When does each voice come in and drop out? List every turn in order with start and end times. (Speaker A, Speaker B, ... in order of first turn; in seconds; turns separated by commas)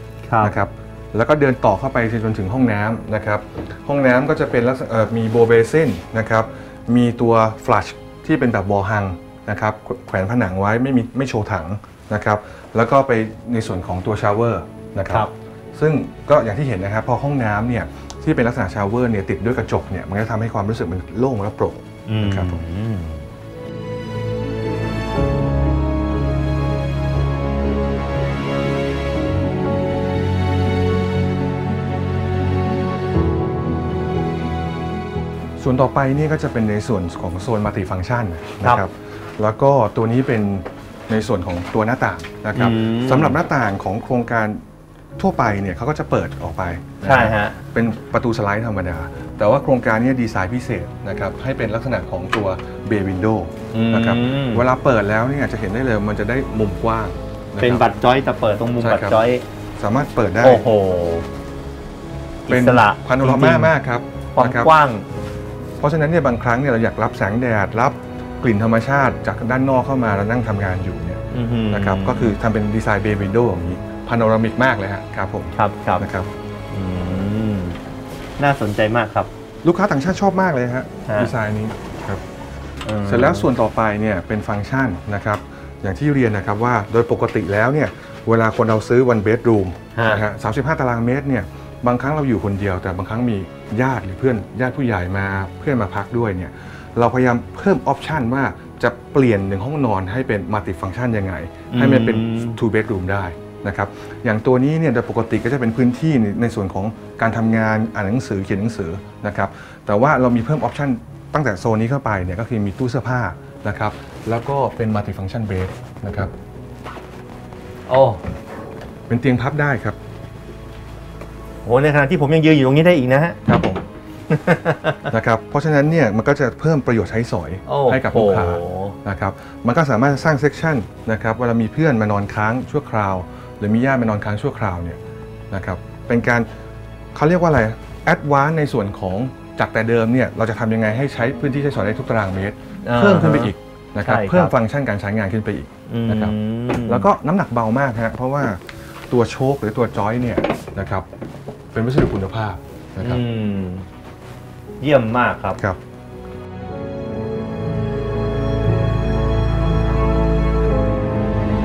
Speaker A: 0.3-0.5, Speaker B: 0.4-22.6, Speaker A: 22.1-23.3, Speaker B: 35.6-44.6, Speaker A: 42.5-43.4, Speaker B: 45.2-57.9, Speaker A: 47.0-47.6, Speaker A: 53.7-54.6, Speaker A: 57.6-59.4, Speaker B: 58.8-59.2, Speaker B: 59.8-60.7, Speaker A: 60.4-61.3, Speaker A: 62.5-63.7, Speaker B: 62.5-64.7, Speaker A: 64.3-65.0, Speaker B: 65.8-76.3, Speaker A: 71.3-72.4, Speaker A: 75.5-76.1, Speaker A: 76.7-77.8, Speaker A: 78.4-79.3, Speaker B: 79.6-82.2, Speaker A: 81.1-81.3, Speaker A: 82.8-83.5, Speaker B: 83.0-116.3, Speaker A: 90.0-90.2, Speaker A: 101.7-102.6, Speaker A: 117.9-118.2, Speaker B: 119.1-120.0, Speaker A: 121.6-123.5, Speaker B: 123.5-123.8, Speaker A: 124.3-125.1, Speaker B: 125.1-135.0, Speaker A: 127.7-129.0, Speaker B: 135.5-136.5, Speaker B: 137.1-151.1, Speaker A: 142.8-144.5, Speaker A: 145.9-147.1, Speaker B: 151.7-153.2, Speaker A: 153.0-153.9, Speaker A: 154.8-155.6